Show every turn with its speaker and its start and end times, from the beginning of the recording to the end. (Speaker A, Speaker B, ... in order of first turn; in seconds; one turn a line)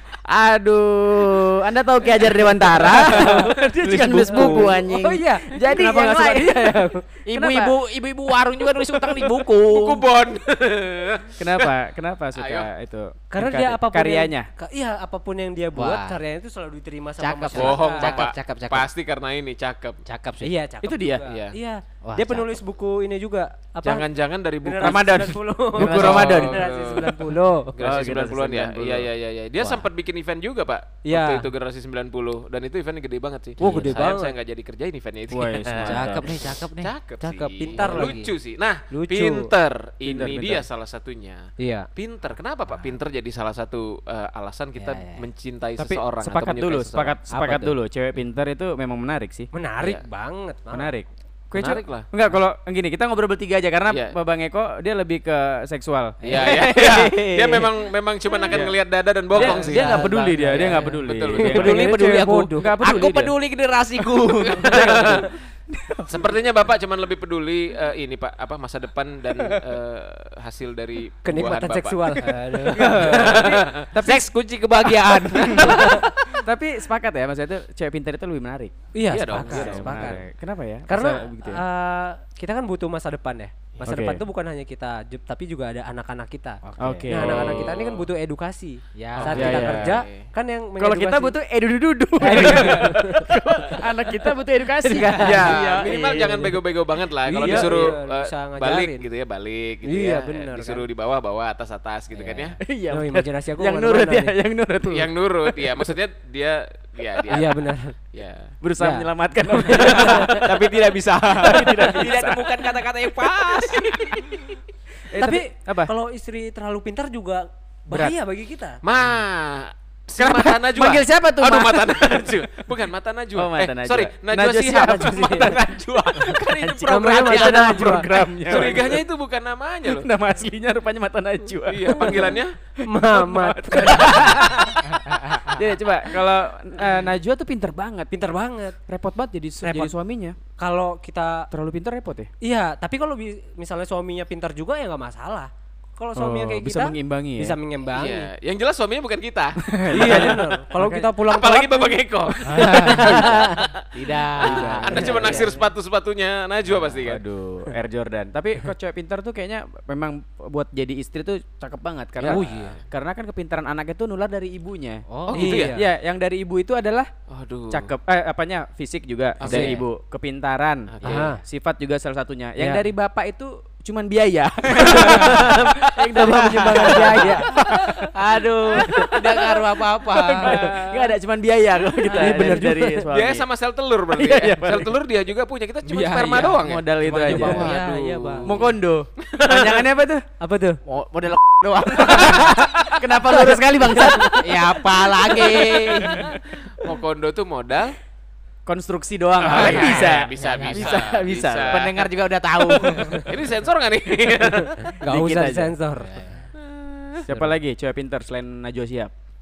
Speaker A: 0.3-7.7
Speaker B: 2.7-4.8
Speaker C: 3.1-3.5
Speaker C: 4.3-7.0
Speaker B: 7.3-10.0
Speaker D: 9.7-11.7
Speaker A: 11.4-14.5
Speaker D: 12.3-12.7
Speaker C: 13.3-18.2
Speaker B: 15.7-16.2
Speaker B: 17.2-18.9
Speaker D: 17.5-20.0
Speaker B: 20.1-20.6
Speaker C: 20.4-24.1
Speaker A: 20.8-21.2
Speaker D: 21.2-21.5
Speaker B: 22.0-22.6
Speaker D: 23.8-25.2
Speaker C: 24.6-27.8
Speaker A: 24.8-27.2
Speaker D: 25.8-41.4
Speaker A: 27.8-29.1
Speaker B: 29.6-29.9
Speaker C: 31.0-31.5
Speaker C: 33.6-34.3
Speaker A: 33.6-33.9
Speaker A: 35.3-36.3
Speaker C: 35.7-36.0
Speaker B: 35.8-38.2
Speaker C: 37.2-38.3
Speaker C: 38.9-39.5
Speaker A: 40.0-40.6
Speaker C: 41.6-41.9
Speaker D: 41.9-47.2
Speaker B: 42.7-43.0
Speaker B: 44.8-45.2
Speaker A: 45.8-49.5
Speaker B: 47.3-47.7
Speaker C: 49.5-50.9
Speaker A: 50.7-56.2
Speaker D: 51.5-52.1
Speaker D: 53.9-54.1
Speaker B: 56.2-57.9
Speaker D: 56.2-60.1
Speaker B: 59.3-61.0
Speaker A: 59.3-63.3
Speaker C: 60.1-60.8
Speaker D: 61.0-61.8
Speaker C: 61.3-62.8
Speaker B: 61.6-64.9
Speaker A: 64.5-66.1
Speaker D: 64.5-65.3
Speaker D: 66.1-72.3
Speaker C: 71.2-73.5
Speaker A: 72.7-74.3
Speaker D: 73.0-73.9
Speaker B: 74.0-76.0
Speaker A: 75.5-78.7
Speaker C: 75.6-75.9
Speaker C: 78.9-80.2
Speaker D: 79.1-80.2
Speaker A: 79.3-81.6
Speaker C: 80.9-91.4
Speaker A: 83.8-84.2
Speaker B: 86.6-87.1
Speaker A: 86.8-87.7
Speaker D: 87.2-88.0
Speaker B: 89.0-89.7
Speaker D: 89.1-90.3
Speaker A: 89.3-90.0
Speaker A: 90.8-96.3
Speaker C: 92.2-93.3
Speaker C: 94.9-96.0
Speaker D: 95.2-102.6
Speaker C: 97.2-99.0
Speaker A: 97.3-97.9
Speaker C: 99.8-100.8
Speaker A: 102.6-105.6
Speaker C: 102.9-104.3
Speaker D: 104.9-108.5
Speaker C: 107.3-107.9
Speaker A: 108.6-112.8
Speaker C: 108.8-110.4
Speaker D: 109.7-110.6
Speaker B: 110.5-114.1
Speaker A: 113.6-114.4
Speaker A: 115.1-115.9
Speaker C: 115.1-118.8
Speaker D: 118.8-130.1
Speaker A: 120.2-122.2
Speaker A: 123.3-129.0
Speaker C: 126.8-128.8
Speaker A: 129.8-132.4
Speaker D: 131.7-132.5
Speaker C: 132.0-132.2
Speaker C: 132.9-134.7
Speaker A: 132.9-134.8
Speaker A: 135.4-138.1
Speaker C: 138.1-138.8
Speaker A: 138.9-140.4
Speaker C: 139.6-139.9
Speaker C: 140.6-141.5
Speaker A: 141.5-142.3
Speaker C: 142.4-148.3
Speaker A: 146.2-147.6
Speaker D: 147.9-150.4
Speaker A: 149.7-151.1
Speaker C: 149.9-152.0
Speaker D: 151.2-153.7
Speaker B: 152.4-153.2
Speaker C: 152.6-153.6
Speaker A: 153.0-153.3
Speaker B: 153.9-155.6
Speaker D: 154.4-157.2
Speaker A: 154.4-155.4
Speaker C: 154.6-155.4
Speaker A: 157.0-167.1
Speaker B: 162.2-162.7
Speaker C: 162.2-162.8
Speaker B: 165.1-165.6
Speaker D: 165.3-165.8
Speaker C: 165.3-165.9
Speaker D: 167.3-167.9
Speaker A: 167.7-178.1
Speaker D: 169.4-169.8
Speaker B: 169.4-169.8
Speaker D: 170.9-171.2
Speaker B: 171.0-171.3
Speaker C: 171.0-171.4
Speaker C: 172.6-172.8
Speaker C: 174.8-177.5
Speaker B: 176.8-177.4
Speaker B: 178.0-181.1
Speaker A: 178.8-183.4
Speaker D: 180.4-180.8
Speaker C: 182.0-183.1
Speaker D: 183.1-188.7
Speaker A: 184.2-184.9
Speaker B: 185.8-188.7
Speaker A: 186.6-187.7
Speaker A: 188.4-190.2
Speaker D: 189.3-189.8
Speaker C: 190.4-190.8
Speaker B: 190.9-192.8
Speaker A: 191.9-196.2
Speaker B: 194.1-196.3
Speaker D: 196.1-198.0
Speaker A: 198.7-201.8
Speaker D: 199.4-202.0
Speaker B: 199.6-203.3
Speaker D: 203.0-204.8
Speaker C: 204.8-206.2
Speaker A: 205.0-205.7
Speaker B: 206.0-206.4
Speaker D: 206.6-207.2
Speaker A: 207.3-209.1